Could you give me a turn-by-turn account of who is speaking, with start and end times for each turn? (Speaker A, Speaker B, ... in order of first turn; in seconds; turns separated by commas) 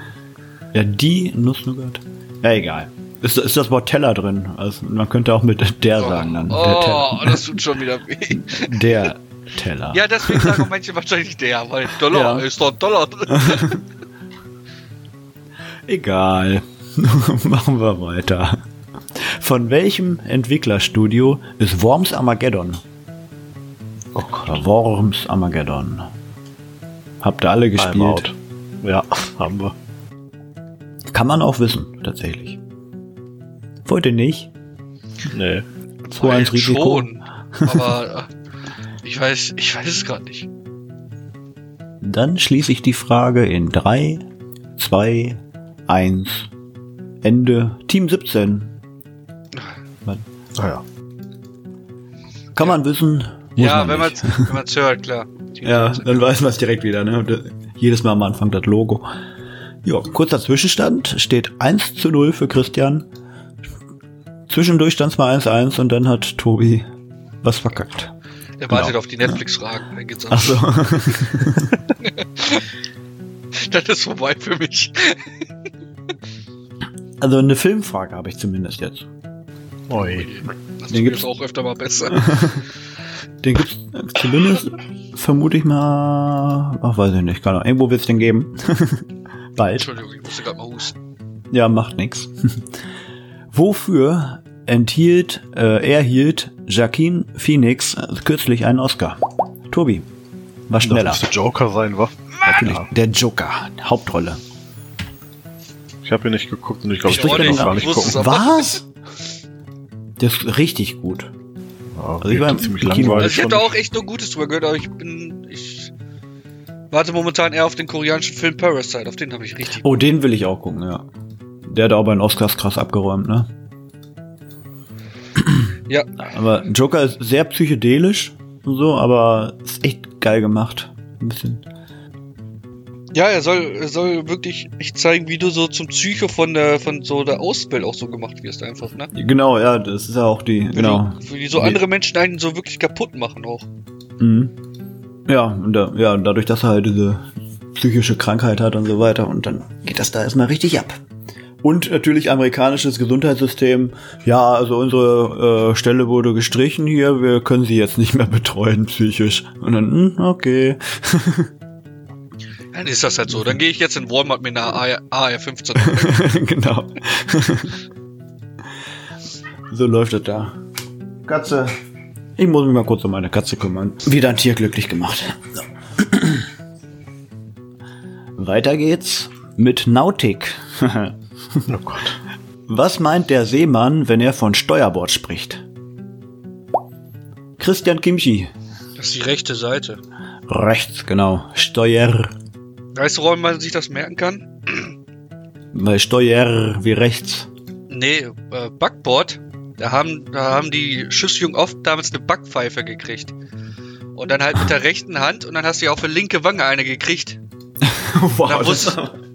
Speaker A: 0.7-7.6, Speaker B: 6.0-9.1, Speaker A: 8.3-10.7, Speaker B: 9.9-13.8, Speaker A: 12.1-12.5, Speaker A: 13.3-13.8, Speaker A: 15.9-18.6, Speaker A: 19.1-22.8, Speaker C: 24.2-24.5, Speaker A: 24.2-26.1, Speaker A: 27.2-28.3, Speaker C: 27.8-28.3, Speaker C: 28.8-29.7, Speaker A: 31.1-32.6, Speaker A: 33.9-34.5, Speaker C: 35.3-35.6, Speaker A: 36.1-37.1, Speaker B: 36.2-38.3, Speaker A: 37.7-37.9, Speaker B: 39.0-40.5, Speaker A: 42.0-44.2, Speaker A: 44.8-46.5, Speaker A: 47.2-48.7, Speaker C: 50.6-50.8, Speaker A: 52.6-54.5, Speaker B: 53.6-56.4, Speaker A: 55.6-59.1, Speaker A: 59.9-63.1, Speaker A: 64.5-66.9, Speaker A: 67.4-68.1, Speaker B: 68.6-70.7, Speaker A: 68.7-69.4, Speaker A: 70.3-71.7, Speaker B: 72.0-72.7, Speaker B: 73.6-75.3, Speaker A: 77.2-79.1, Speaker C: 79.9-80.3, Speaker B: 80.0-82.5, Speaker A: 80.9-81.2, Speaker A: 82.1-82.6, Speaker A: 83.4-89.0, Speaker A: 89.6-89.9, Speaker B: 89.8-91.0, Speaker A: 91.5-92.7, Speaker A: 93.5-100.1, Speaker A: 100.7-101.2, Speaker C: 100.8-102.1, Speaker B: 102.4-102.7, Speaker A: 102.5-104.4, Speaker C: 106.0-108.3, Speaker B: 107.1-108.8, Speaker A: 107.1-108.8, Speaker A: 110.2-111.3, Speaker C: 112.0-113.7, Speaker A: 112.2-113.4, Speaker B: 113.2-115.9, Speaker B: 116.9-119.9, Speaker A: 119.8-121.0, Speaker A: 121.7-123.5, Speaker A: 126.3-131.6, Speaker B: 133.1-139.1, Speaker A: 139.1-141.8, Speaker B: 140.7-143.7, Speaker A: 144.2-144.5, Speaker A: 145.3-150.9, Speaker A: 151.6-161.5, Speaker B: 162.7-166.2, Speaker A: 165.8-167.7, Speaker A: 169.7-170.6, Speaker A: 171.2-171.7, Speaker A: 172.4-176.5, Speaker A: 178.4-181.6, Speaker C: 181.7-182.2, Speaker A: 182.7-185.6, Speaker A: 187.6-188.5, Speaker B: 189.0-190.0, Speaker A: 190.5-192.3, Speaker B: 192.9-194.9, Speaker A: 195.7-197.5, Speaker B: 197.9-203.3, Speaker B: 204.2-207.4, Speaker A: 207.8-209.2, Speaker B: 208.4-209.0